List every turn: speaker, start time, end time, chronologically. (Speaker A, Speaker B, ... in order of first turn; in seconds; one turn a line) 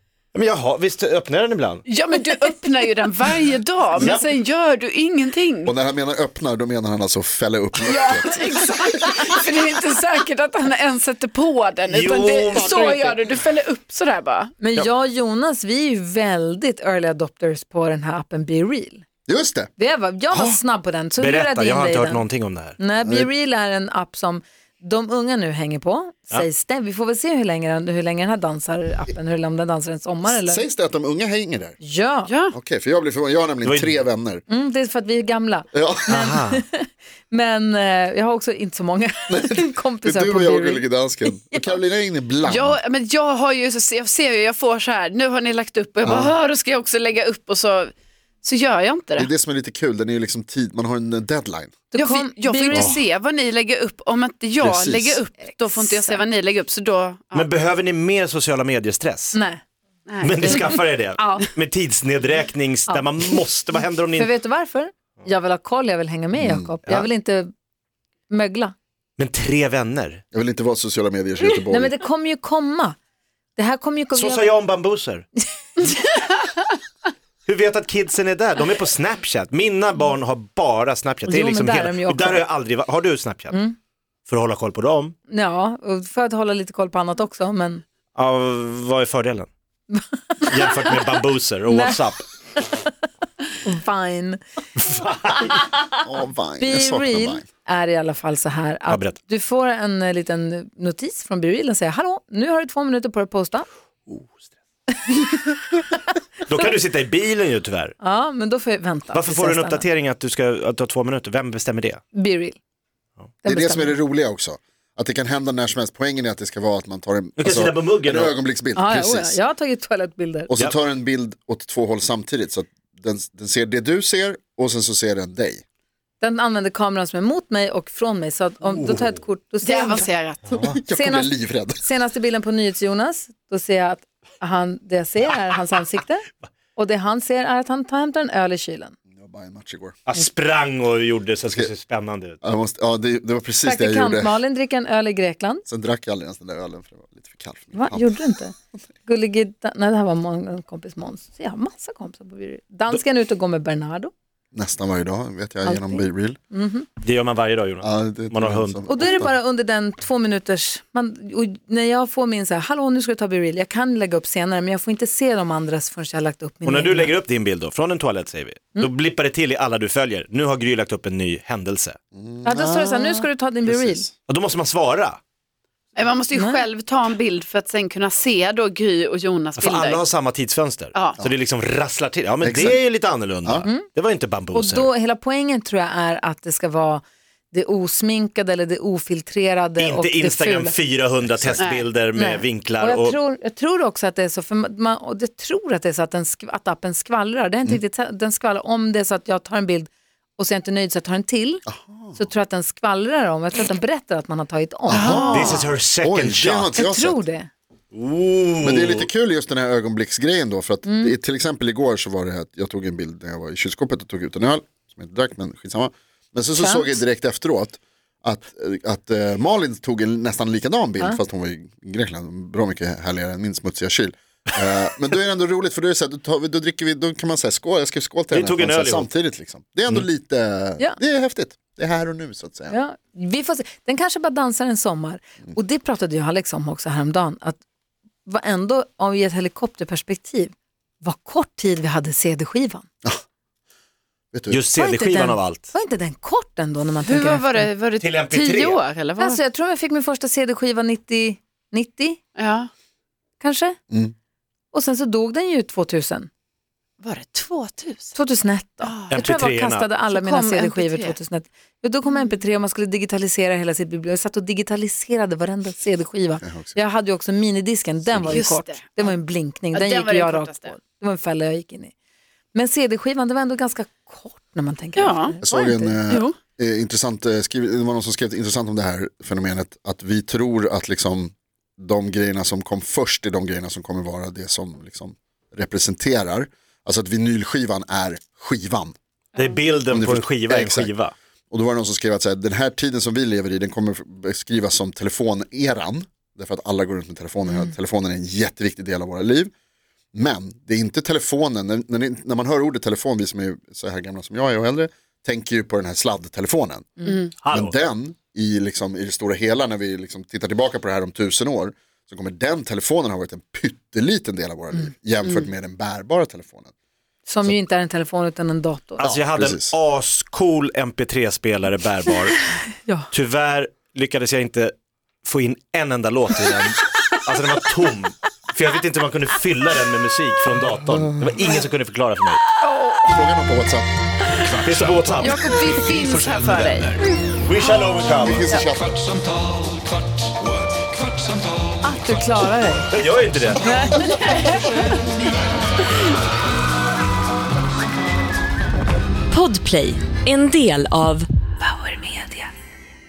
Speaker A: 0.3-1.8
Speaker B: 1.9-5.7
Speaker A: 4.0-4.3
Speaker C: 5.6-8.5
Speaker B: 7.8-14.5
Speaker A: 11.9-13.0
Speaker D: 14.6-19.0
Speaker C: 19.3-19.7
Speaker D: 19.8-22.2
Speaker C: 20.3-20.6
Speaker A: 21.2-22.8
Speaker D: 22.8-30.6
Speaker C: 23.0-23.3
Speaker C: 30.2-31.8
Speaker D: 31.8-32.3
Speaker B: 32.3-32.5
Speaker C: 32.5-34.4
Speaker A: 33.6-34.0
Speaker D: 34.5-41.8
Speaker C: 35.7-36.1
Speaker A: 36.1-36.6
Speaker C: 39.3-42.8
Speaker B: 42.5-47.9
Speaker C: 46.0-46.3
Speaker B: 48.4-49.3
Speaker C: 49.2-51.8
Speaker D: 51.9-52.9
Speaker B: 51.9-57.5
Speaker C: 54.6-55.2
Speaker D: 55.6-56.2
Speaker A: 57.3-59.4
Speaker D: 59.3-59.6
Speaker B: 60.1-61.5
Speaker A: 60.2-64.3
Speaker D: 62.9-63.1
Speaker D: 64.1-67.5
Speaker C: 66.3-66.7
Speaker D: 68.3-68.7
Speaker A: 69.2-70.2
Speaker C: 70.3-72.0
Speaker D: 71.7-73.0
Speaker D: 73.5-74.5
Speaker A: 74.1-75.2
Speaker B: 75.9-76.5
Speaker A: 77.4-83.6
Speaker D: 81.3-82.4
Speaker A: 84.3-85.1
Speaker D: 85.3-87.8
Speaker A: 88.1-89.5
Speaker D: 89.9-91.0
Speaker A: 90.5-92.2
Speaker D: 91.7-92.0
Speaker D: 93.6-94.4
Speaker A: 94.8-95.7
Speaker C: 96.0-97.4
Speaker D: 96.6-103.7
Speaker A: 98.9-99.2
Speaker A: 104.1-104.4
Speaker D: 105.1-105.4
Speaker A: 106.5-107.9
Speaker D: 108.0-109.8
Speaker A: 109.1-112.0
Speaker D: 112.1-112.6
Speaker D: 113.4-114.0
Speaker C: 113.5-119.4
Speaker A: 117.4-118.3
Speaker D: 118.7-120.5
Speaker C: 120.5-125.6
Speaker D: 126.2-130.1
Speaker B: 129.6-130.4
Speaker C: 130.5-131.8
Speaker D: 130.9-138.9
Speaker C: 139.1-139.9
Speaker A: 140.1-142.4
Speaker C: 142.4-144.4
Speaker D: 143.6-145.6
Speaker C: 145.7-148.2
Speaker D: 147.7-148.5
Speaker D: 149.1-154.1
Speaker C: 154.5-156.4
Speaker D: 155.6-156.9
Speaker A: 157.0-158.8
Speaker C: 157.8-159.3
Speaker D: 158.8-167.1
Speaker A: 166.6-172.0
Speaker C: 172.1-174.1
Speaker D: 172.4-174.1
Speaker A: 174.3-175.2
Speaker B: 175.9-180.0
Speaker D: 176.3-176.6
Speaker A: 179.6-184.9
Speaker C: 182.4-182.8
Speaker D: 184.5-190.8
Speaker A: 189.8-193.2
Speaker C: 191.2-191.7
Speaker B: 191.6-191.9
Speaker D: 192.1-205.6
Speaker C: 201.7-202.2
Speaker C: 204.9-207.2
Speaker B: 204.9-205.5
Speaker A: 205.3-206.7
Speaker D: 206.7-207.5
Speaker A: 207.9-209.1
Speaker C: 208.6-232.7
Speaker D: 210.8-211.1
Speaker D: 216.6-217.0
Speaker A: 228.3-229.1
Speaker D: 232.7-237.6
Speaker D: 238.2-242.8
Speaker C: 244.3-244.6
Speaker A: 244.5-245.7
Speaker D: 244.7-247.7
Speaker B: 247.0-249.4
Speaker A: 248.0-248.8
Speaker D: 249.2-252.2
Speaker B: 252.4-252.7
Speaker D: 253.4-253.8
Speaker D: 254.7-256.3
Speaker B: 257.0-258.1
Speaker D: 258.1-271.9
Speaker B: 258.8-259.2
Speaker A: 259.1-259.9
Speaker B: 260.0-261.1
Speaker C: 266.4-266.8
Speaker C: 268.0-268.4
Speaker B: 268.3-269.1
Speaker B: 269.7-270.7
Speaker D: 272.5-276.0
Speaker B: 274.9-275.3
Speaker C: 275.4-288.9
Speaker B: 276.1-276.4
Speaker A: 289.4-291.1
Speaker C: 289.9-290.9
Speaker C: 291.5-299.5
Speaker C: 300.1-316.7
Speaker B: 307.1-307.3
Speaker A: 307.4-307.8
Speaker D: 317.3-319.1
Speaker A: 319.0-322.4
Speaker C: 319.0-319.7
Speaker D: 322.8-323.1
Speaker A: 323.1-332.4
Speaker B: 332.6-333.2
Speaker C: 333.0-333.9
Speaker E: 334.3-337.1
Speaker A: 334.6-335.5
Speaker B: 335.2-336.9
Speaker A: 337.4-338.6
Speaker C: 338.1-339.0
Speaker E: 339.1-341.7
Speaker D: 341.8-343.0
Speaker A: 342.9-343.7
Speaker D: 343.6-344.4
Speaker B: 344.0-344.8
Speaker F: 349.3-352.4